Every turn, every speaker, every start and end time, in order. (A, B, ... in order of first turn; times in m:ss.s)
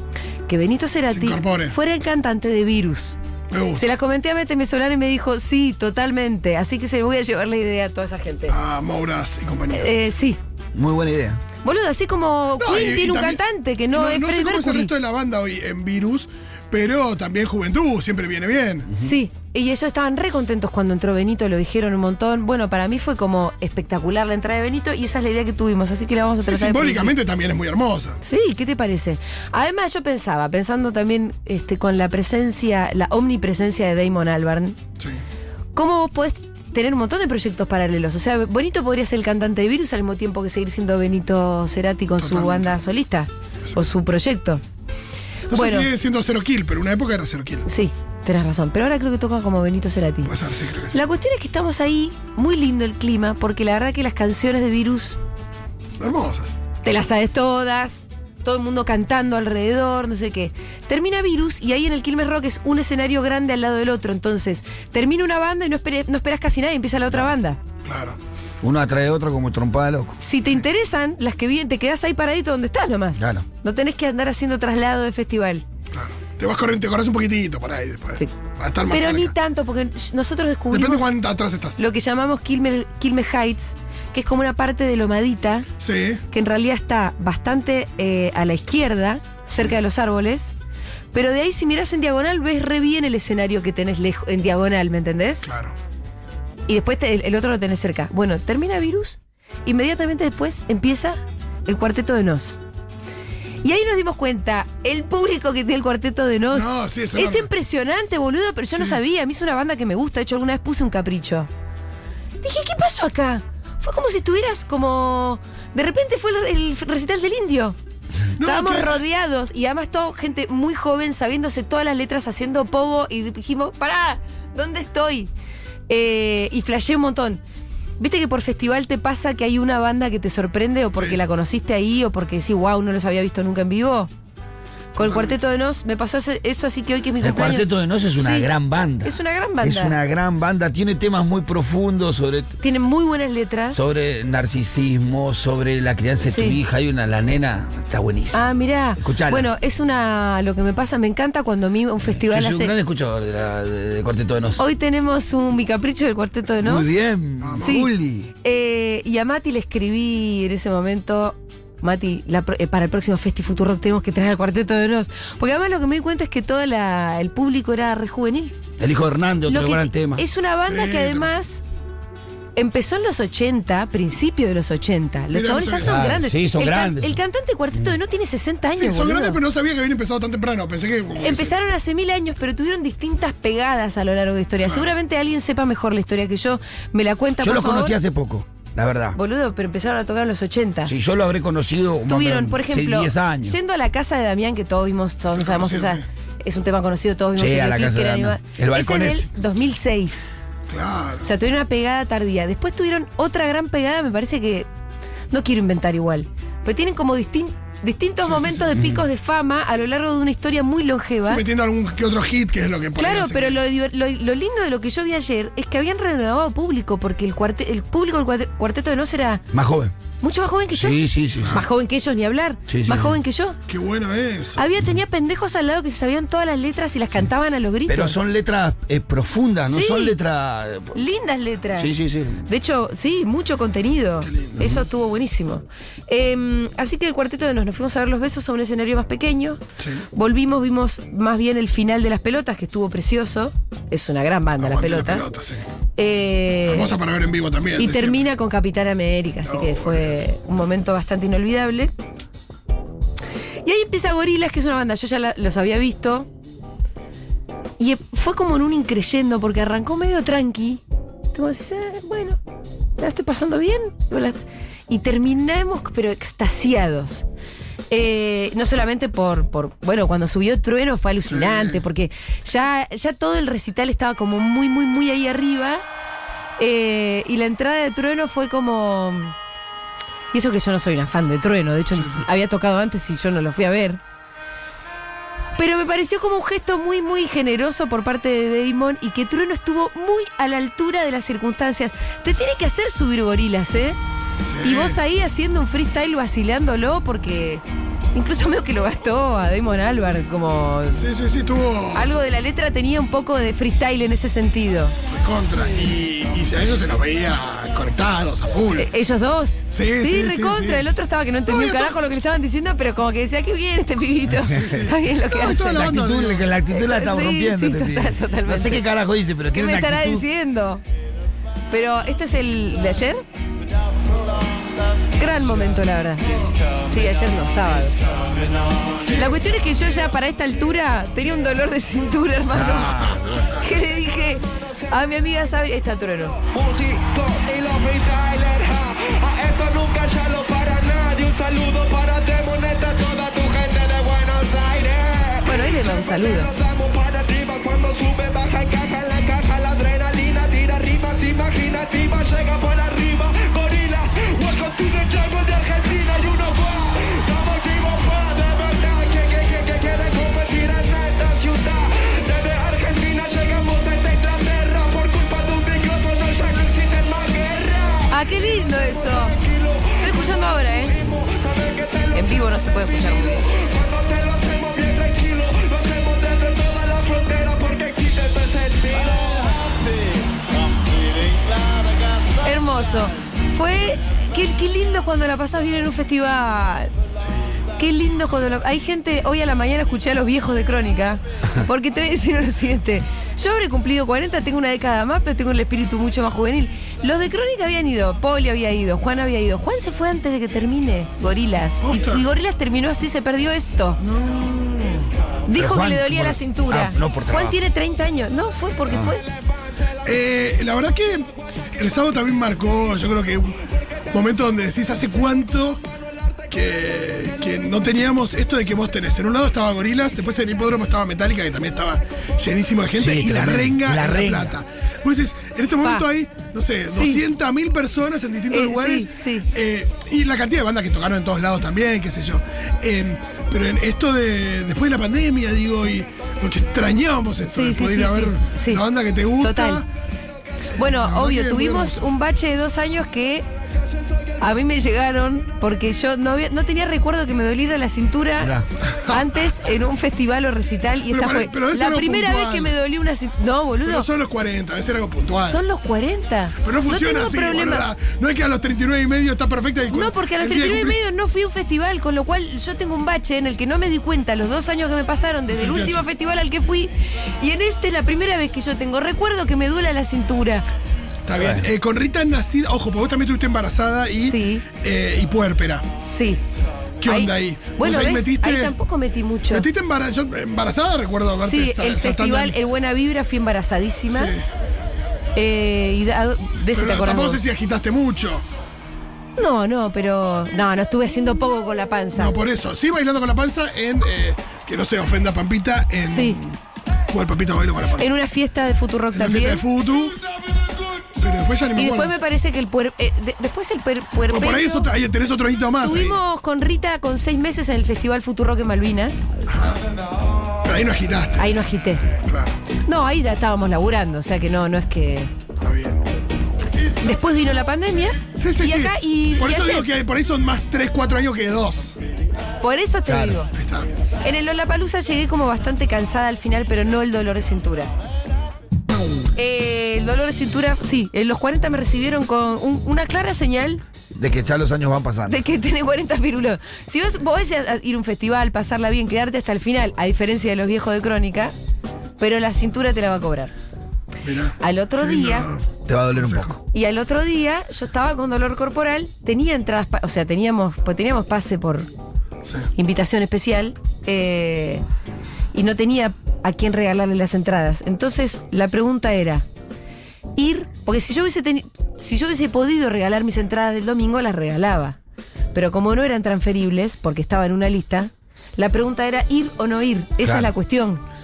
0:00.5-0:03.2 A
0:01.1-0:01.8 B
0:03.5-0:03.8 B
0:03.7-0:08.5 A
0:08.5-0:09.9 B
0:09.7-0:10.4 A
0:10.7-0:11.4 C
0:11.6-0:14.9 A
0:12.6-0:18.9 B
0:19.0-0:27.1 A
0:26.4-0:28.2 B
0:28.2-0:34.8 A
0:35.7-0:44.6 A
0:42.2-0:42.7 B
0:45.5-0:47.6 B
0:45.5-0:45.9 A
0:47.6-0:50.3 A
0:50.2-0:51.0 B
0:50.9-0:55.2 A
0:56.0-0:56.5 B
0:56.8-1:07.6 A
1:07.8-1:08.2 B
1:08.6-1:10.2 C
1:10.2-1:15.6 A
1:13.2-1:13.4 C
1:15.9-1:19.3 B
1:18.9-1:21.1 A
1:20.7-1:21.8 B
1:21.8-1:25.7 A
1:25.8-1:26.2 B
1:26.3-1:30.5 A
1:31.1-1:35.4 A
1:35.4-1:35.7 B
1:36.7-1:42.6 A
1:43.6-1:51.5 A
1:46.5-1:47.5 B
1:48.7-1:49.0 B
1:52.4-1:57.8 A
1:58.4-1:59.0 B
1:58.4-2:05.3 A
2:05.9-2:07.4 A
2:08.0-2:14.1 A
2:10.9-2:11.2 B
2:14.9-2:18.5 A
2:15.0-2:15.4 B
2:17.2-2:22.6 C
2:19.0-2:20.0 A
2:22.6-2:23.9 A
2:23.7-2:28.4 C
2:26.2-2:26.6 A
2:28.3-2:32.7 A
2:29.0-2:29.5 C
2:32.0-2:34.6 C
2:34.6-2:36.9 A
2:36.6-2:38.3 C
2:37.4-2:37.7 B
2:37.6-2:37.9 A
2:38.4-2:48.5 A
2:48.8-2:50.2 C
2:49.4-2:51.6 A
2:50.6-2:51.3 B
2:52.6-2:59.4 A
2:55.3-2:56.1 B
2:55.8-2:57.2 C
2:58.8-3:01.6 B
3:01.2-3:07.9 A
3:04.6-3:04.9 B
3:07.4-3:09.2 C
3:09.1-3:10.9 A
3:10.8-3:13.6 C
3:12.0-3:20.3 A
3:15.3-3:16.0 B
3:17.4-3:19.3 C
3:20.7-3:21.2 B
3:21.2-3:24.7 A
3:25.3-3:31.4 A
3:28.2-3:28.8 B
3:28.7-3:29.0 C
3:31.2-3:33.6 B
3:33.0-3:39.4 A
3:39.5-3:39.9 C
3:40.2-3:43.6 A
3:40.7-3:41.6 C
3:42.7-3:43.2 C
3:43.7-3:44.6 B
3:44.6-3:48.2 A
3:47.9-3:51.0 C
3:49.7-3:50.2 A
3:50.9-3:59.6 A
3:51.7-3:52.5 C
3:54.2-3:54.8 B
3:59.8-4:00.0 B
4:00.1-4:05.3 A
4:04.6-4:05.7 B
4:06.0-4:07.0 A
4:06.6-4:08.2 B
4:07.8-4:11.9 A
4:09.4-4:10.2 B
4:13.6-4:16.3 A
4:17.8-4:20.8 A
4:21.3-4:22.4 A
4:23.0-4:24.4 A
4:24.9-4:27.2 A
4:27.9-4:35.8 A
4:31.3-4:31.8 B
4:36.6-4:39.3 A
4:40.3-4:44.0 A
4:41.9-4:42.2 B
4:45.6-4:54.0 A
4:54.4-4:55.0 B
4:54.6-5:01.0 A
5:00.9-5:02.1 B
5:01.9-5:05.0 A
5:05.1-5:08.9 B
5:08.7-5:15.9 A
5:09.7-5:10.8 B
5:11.5-5:12.0 B
5:14.4-5:14.7 C
5:14.5-5:16.4 B
5:15.6-5:20.2 C
5:16.7-5:18.8 A
5:19.5-5:20.8 A
5:21.7-5:23.2 A
5:25.2-5:28.0 A
5:29.1-5:36.4 A
5:32.5-5:33.6 C
5:36.4-6:19.6 D
5:45.4-5:46.5 A
6:08.1-6:09.4 A
6:10.0-6:11.0 A
6:12.1-6:13.4 A
6:22.4-6:26.9 A
6:27.8-6:49.3 A
6:41.8-6:42.2 B
6:45.5-6:47.6 C
6:48.9-6:49.1 C
6:50.0-6:53.6 B
6:54.1-6:55.8 B
6:56.5-7:19.8 B
7:02.9-7:04.6 C
7:06.9-7:07.2 A
7:08.5-7:09.5 A
7:17.4-7:18.8 A
7:19.4-7:19.8 A
7:20.8-7:22.0 B
7:20.8-7:23.4 A
7:24.4-7:28.5 A
7:28.4-7:28.7 C
7:28.9-7:29.3 B
7:29.1-7:34.1 A
7:31.1-7:32.7 B
7:33.8-7:35.6 B
7:35.4-7:37.9 A
7:36.6-7:41.0 B
7:39.9-7:50.6 A
7:45.5-7:46.0 B
7:51.2-7:55.8 B
7:51.4-7:51.7 C
7:54.2-7:54.6 A
7:56.0-7:56.4 A
7:57.0-7:58.8 B
7:57.0-7:59.7 A
7:59.5-8:02.6 B
8:01.4-8:04.3 A
8:04.1-8:04.4 B
8:05.3-8:07.4 A
8:06.7-8:08.4 B
8:09.4-8:12.4 A
8:12.2-8:16.6 B
8:16.0-8:16.4 A
8:17.1-8:18.1 B
8:18.0-8:19.6 A
8:19.1-8:20.2 B
8:21.1-8:22.1 B
8:21.7-8:24.9 A
8:24.3-8:26.2 B
8:25.8-8:29.3 A
8:29.5-8:29.8 B
8:30.6-8:31.5 B
8:31.4-8:32.0 A
8:32.1-8:32.6 B
8:32.8-8:35.3 A
8:35.6-8:36.0 B
8:36.8-8:37.1 B
8:37.0-8:39.9 A
8:38.4-8:41.9 B
8:42.6-8:43.5 A
8:43.0-8:43.4 C
8:43.5-8:43.9 B
8:44.2-8:47.9 A
8:49.3-8:53.8 A
8:54.1-8:55.4 C
8:55.3-9:01.5 A
9:02.2-9:03.5 A
9:04.2-9:06.6 B
9:04.6-9:05.5 A
9:05.8-9:06.6 C
9:06.7-9:11.9 A
9:12.7-9:14.8 A
9:15.5-9:19.4 A
9:20.4-9:25.0 A
9:25.5-9:31.0 A
9:30.2-9:30.5 C